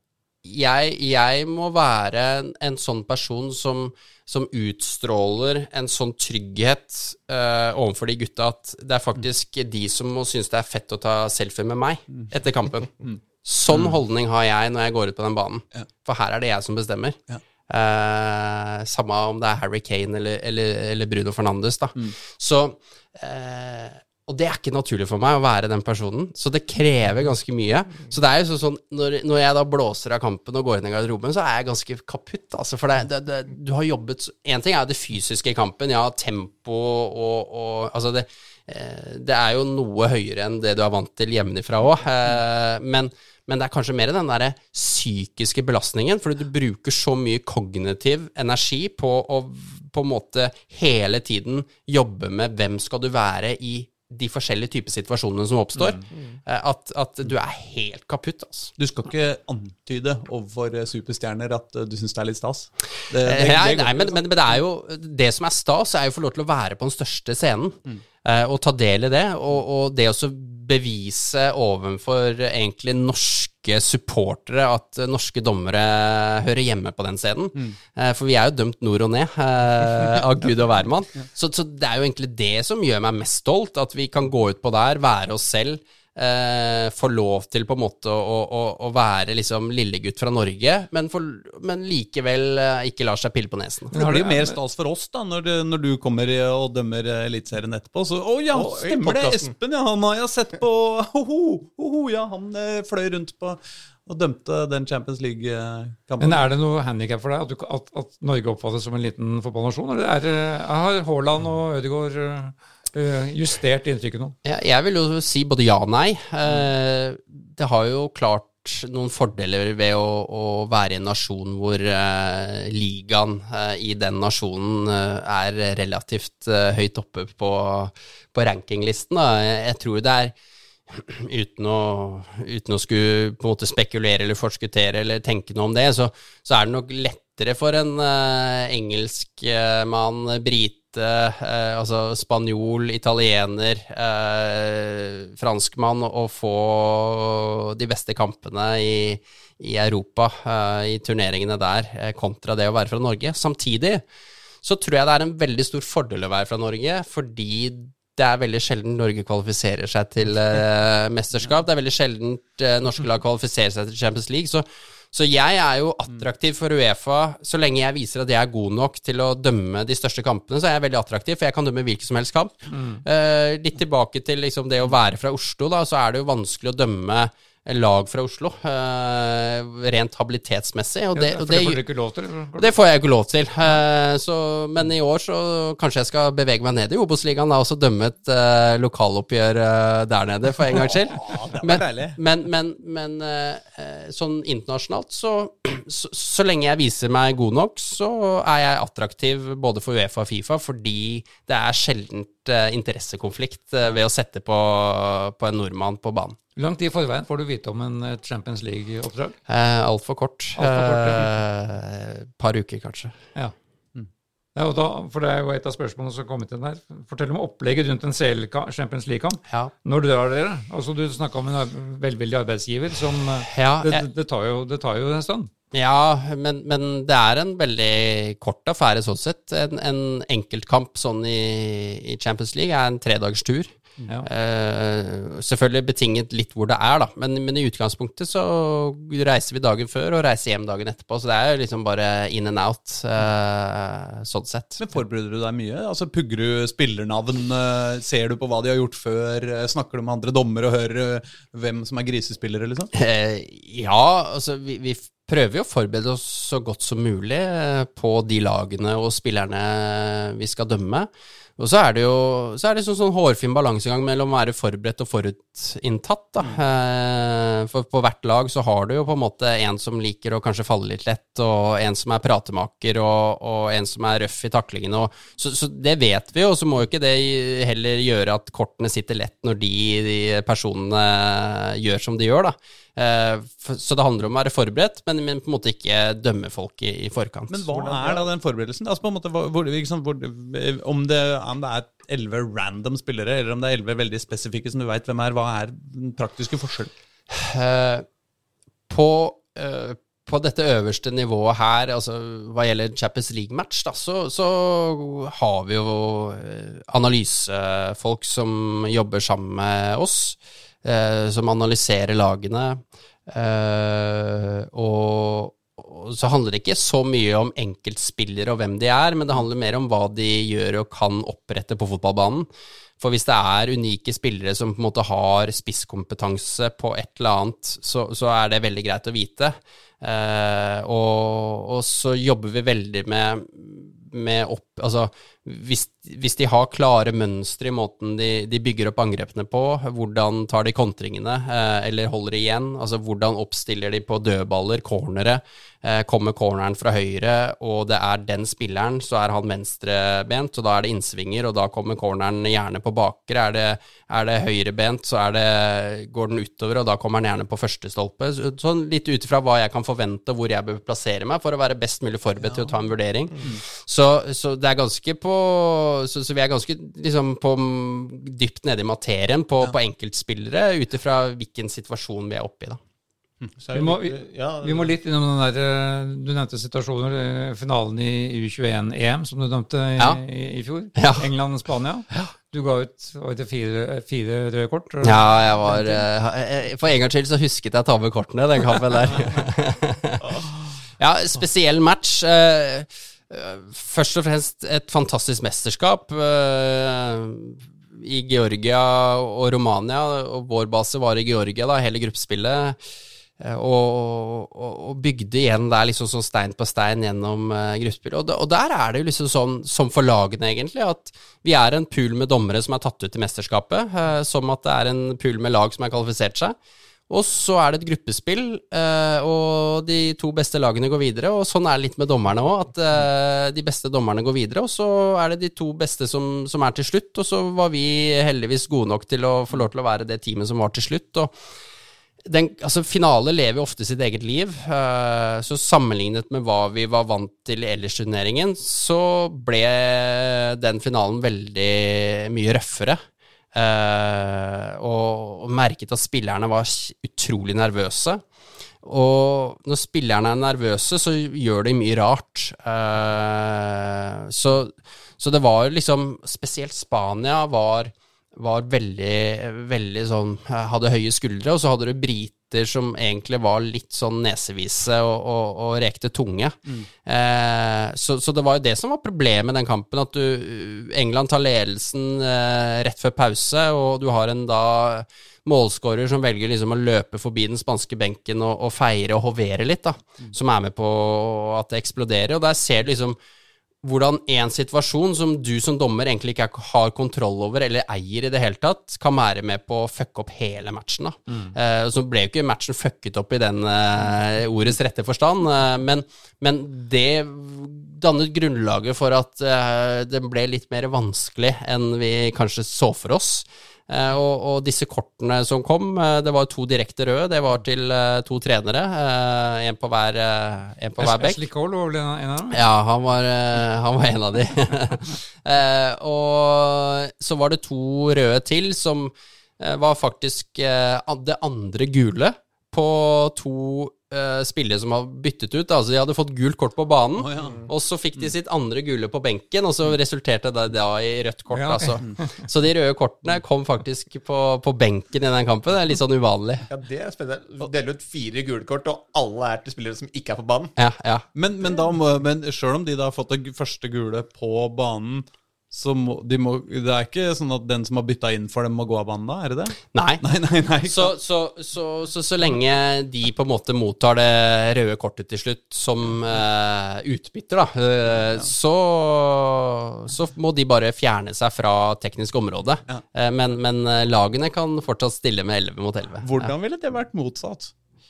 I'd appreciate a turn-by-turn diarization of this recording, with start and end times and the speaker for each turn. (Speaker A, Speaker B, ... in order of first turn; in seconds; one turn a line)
Speaker A: 0.4-17.2
Speaker B: 13.7-14.0
Speaker A: 17.7-58.7
Speaker C: 55.8-56.0
Speaker B: 58.8-64.2
Speaker A: 63.2-93.9
Speaker B: 93.9-106.5
Speaker C: 93.9-94.5
Speaker D: 98.5-99.5
Speaker C: 106.2-114.3
Speaker A: 114.4-130.3
Speaker A: 130.9-154.0
Speaker A: 154.6-181.8
Speaker C: 172.7-173.0
Speaker C: 181.1-182.7
Speaker A: 182.6-206.4
Speaker B: 190.7-192.2
Speaker C: 206.6-209.3
Speaker A: 209.5-213.2
Speaker C: 210.6-211.3
Speaker C: 214.5-225.5
Speaker A: 223.5-224.0
Speaker A: 225.7-233.7
Speaker A: 234.2-244.8
Speaker B: 244.8-252.9
Speaker A: 252.9-287.7
Speaker B: 287.5-296.9
Speaker D: 287.7-288.3
Speaker A: 297.3-298.1
Speaker A: 298.9-322.5
Speaker A: 323.0-372.8
Speaker B: 362.4-362.7
Speaker D: 373.6-374.9
Speaker C: 373.7-386.0
Speaker A: 380.9-381.2
Speaker A: 385.0-390.2
Speaker A: 391.0-402.8
Speaker A: 403.4-416.5
Speaker A: 417.1-431.3
Speaker A: 432.2-443.0
Speaker A: 443.5-448.2
Speaker A: 448.8-483.2
Speaker A: 483.8-511.4
Speaker C: 511.0-512.6
Speaker A: 512.5-536.7
Speaker B: 527.2-527.6
Speaker D: 527.4-527.7
Speaker C: 531.5-532.0
Speaker D: 536.7-540.7
Speaker A: 540.8-541.2
Speaker B: 541.3-551.1
Speaker A: 549.9-550.2
Speaker A: 550.9-566.5
Speaker B: 566.2-567.7